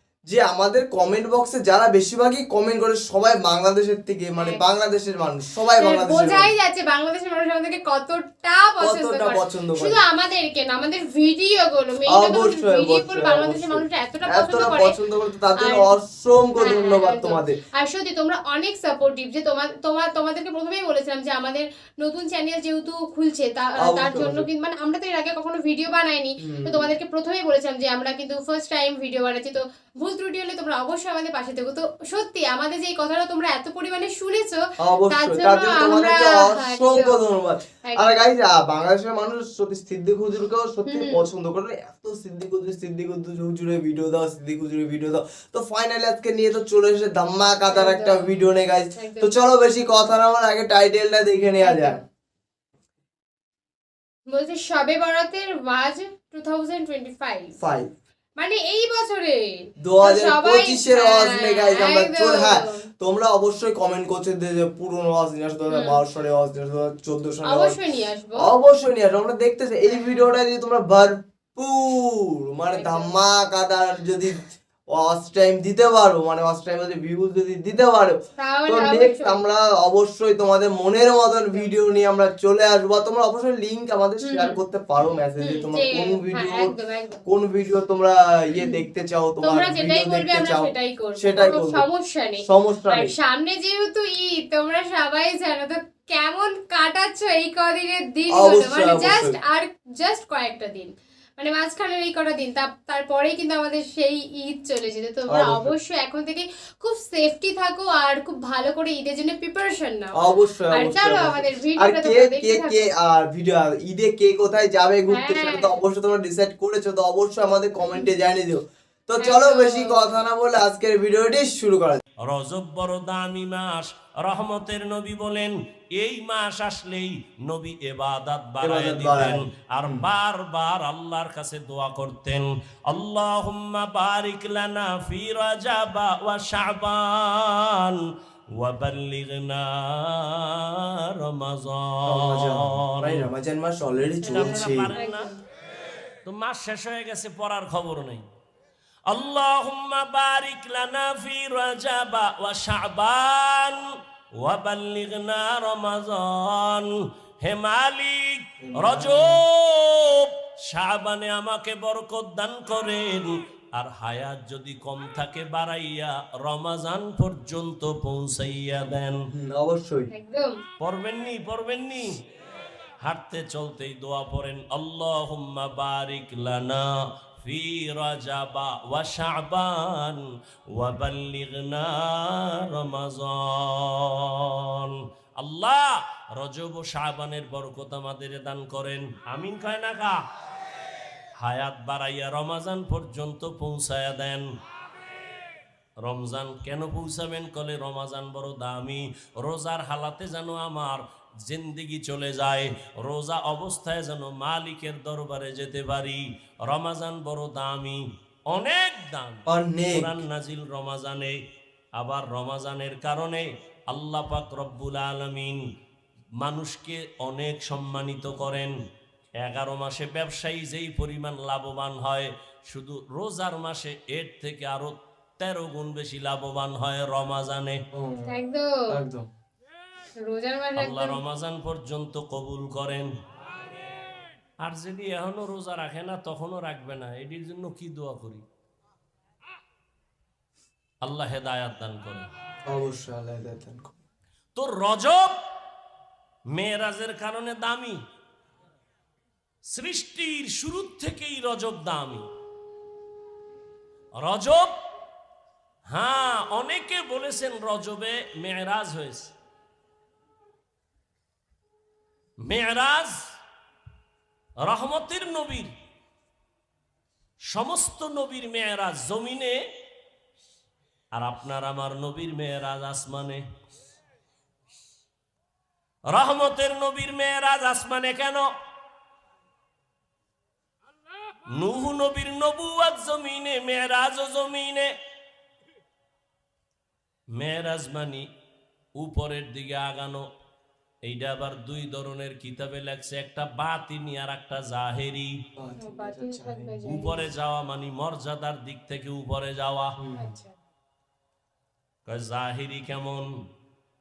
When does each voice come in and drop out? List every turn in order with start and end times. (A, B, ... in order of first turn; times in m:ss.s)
0:00.3-0:06.5 A
0:05.8-0:15.0 B
0:08.8-0:10.0 A
0:12.1-0:17.6 A
0:15.6-0:15.9 B
0:16.6-0:37.2 B
0:23.8-0:24.5 A
0:26.4-0:26.9 A
0:34.8-0:52.0 A
0:37.8-0:38.2 B
0:40.8-0:41.2 B
0:47.7-0:48.3 B
0:49.0-0:49.3 B
0:51.6-0:52.0 B
0:54.3-0:57.6 B
0:57.6-0:57.9 A
0:58.4-1:02.8 B
0:59.8-1:07.8 A
1:05.7-1:06.0 B
1:07.4-1:08.5 B
1:08.4-1:18.2 A
1:09.9-1:10.2 B
1:12.7-1:13.1 B
1:18.4-1:19.4 B
1:18.7-1:26.7 A
1:24.2-1:24.6 B
1:25.4-1:27.2 B
1:27.2-1:31.8 A
1:29.4-1:50.2 B
1:32.4-1:33.1 A
1:38.3-1:39.4 A
1:45.3-1:45.7 A
1:50.2-2:02.0 A
1:50.7-1:52.9 B
1:55.1-1:55.8 B
1:59.2-2:00.2 B
2:02.2-2:23.2 C
2:08.6-2:10.1 A
2:22.1-2:24.9 A
2:24.2-2:25.3 C
2:24.9-2:25.4 B
2:26.2-2:28.2 C
2:29.1-2:33.9 C
2:34.4-2:36.9 C
2:37.4-2:49.3 C
2:38.6-2:39.4 A
2:49.3-2:50.1 A
2:50.1-2:50.6 B
2:50.8-2:52.2 C
2:53.0-3:10.2 C
3:11.4-3:14.4 C
3:16.0-3:31.4 C
3:29.5-3:30.2 A
3:32.0-3:35.6 C
3:36.4-3:38.8 C
3:39.4-3:47.8 C
3:47.9-3:48.4 A
3:48.3-3:48.9 B
3:48.9-3:49.3 A
3:50.2-3:51.2 B
3:50.8-3:53.1 C
3:54.6-3:58.4 C
4:01.0-4:02.3 C
4:02.6-4:03.9 A
4:04.5-4:05.3 C
4:06.5-4:08.0 C
4:09.7-4:12.3 C
4:14.2-4:14.7 C
4:15.9-4:19.3 C
4:22.4-4:23.3 C
4:24.6-4:25.7 C
4:27.5-4:29.6 C
4:31.1-4:33.4 C
4:36.1-4:38.5 C
4:41.5-4:44.9 C
4:47.4-4:48.3 C
4:49.0-4:50.2 C
4:51.0-4:55.3 C
4:55.6-4:57.1 A
4:55.8-4:57.2 B
4:56.9-5:00.0 C
5:00.0-5:00.3 A
5:00.1-5:00.5 B
5:02.0-5:03.3 C